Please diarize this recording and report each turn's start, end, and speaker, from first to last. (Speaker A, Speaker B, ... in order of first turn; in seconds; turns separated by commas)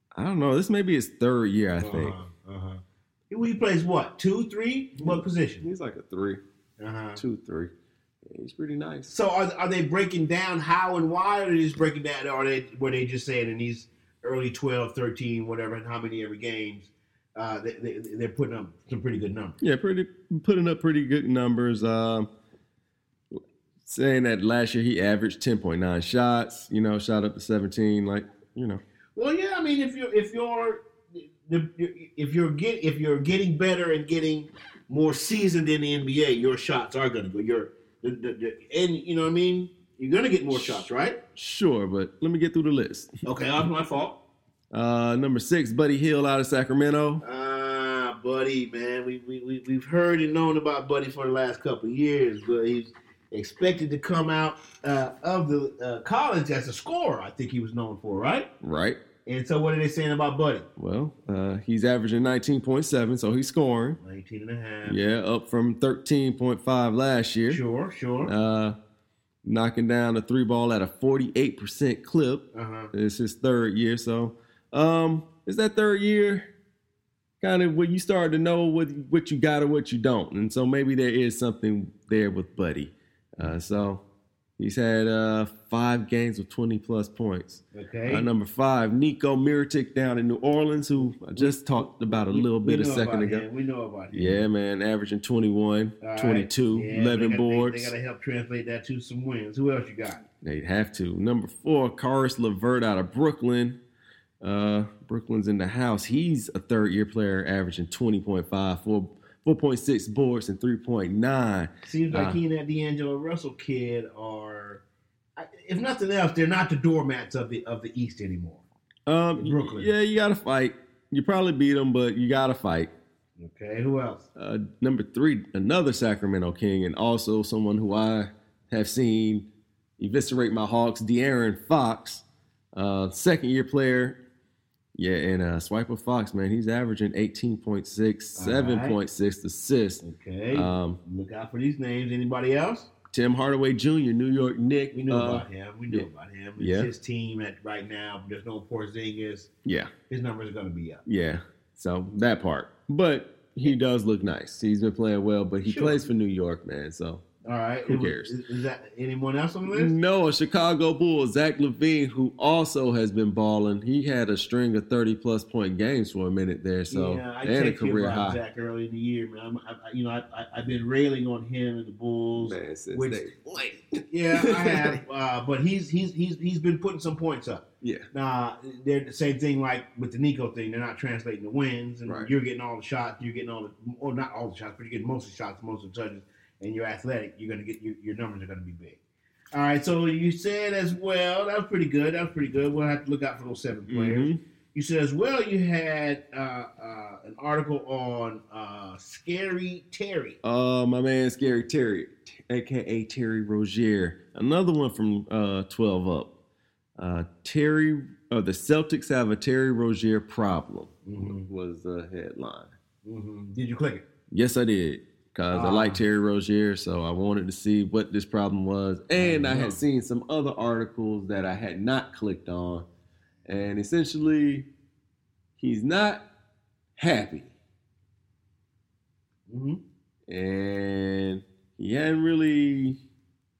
Speaker A: 0.1-2.1, Speaker B: 1.8-5.6, Speaker A: 5.0-6.4, Speaker B: 6.8-7.2, Speaker A: 7.2-7.7, Speaker A: 8.2-9.1, Speaker B: 9.1-19.6, Speaker A: 19.6-22.3, Speaker A: 23.3-28.8, Speaker B: 29.1-41.2, Speaker A: 41.4-43.1, Speaker B: 43.2-44.2, Speaker A: 44.7-47.2, Speaker B: 47.2-58.5, Speaker A: 58.6-59.0, Speaker B: 59.2-60.6, Speaker A: 60.8-64.0, Speaker B: 64.0-65.0, Speaker A: 64.8-67.6, Speaker B: 67.5-68.3, Speaker A: 68.2-68.8, Speaker A: 69.4-76.5, Speaker B: 72.5-72.9, Speaker A: 77.4-84.0, Speaker A: 84.6-93.4, Speaker B: 87.7-88.3, Speaker B: 91.3-94.4, Speaker A: 94.1-97.9, Speaker B: 96.0-100.2, Speaker A: 100.4-103.8, Speaker A: 104.4-112.4, Speaker B: 111.8-114.8, Speaker B: 115.4-118.6, Speaker A: 119.1-122.9, Speaker B: 119.4-119.9, Speaker B: 123.4-124.2, Speaker A: 124.3-129.4, Speaker A: 130.0-132.2, Speaker A: 132.7-134.2, Speaker A: 134.9-141.0, Speaker B: 138.3-139.0, Speaker B: 140.0-142.9, Speaker A: 143.1-146.1, Speaker B: 144.9-149.5, Speaker A: 146.6-146.9, Speaker A: 149.6-149.9, Speaker B: 150.1-151.0, Speaker A: 151.1-157.2, Speaker B: 155.6-156.0, Speaker B: 157.4-159.9, Speaker A: 157.9-158.3, Speaker A: 159.7-168.4, Speaker B: 166.9-189.0, Speaker A: 172.3-173.6, Speaker A: 174.3-175.0, Speaker A: 177.8-178.1, Speaker B: 189.5-200.4, Speaker A: 193.9-194.4, Speaker A: 200.4-206.3, Speaker A: 207.0-212.7, Speaker B: 211.0-211.5, Speaker B: 213.0-214.0, Speaker A: 214.3-222.8, Speaker B: 215.5-216.0, Speaker B: 219.1-219.8, Speaker A: 223.4-224.7, Speaker A: 225.6-226.2, Speaker A: 227.0-227.5, Speaker B: 229.5-229.8, Speaker A: 230.3-233.0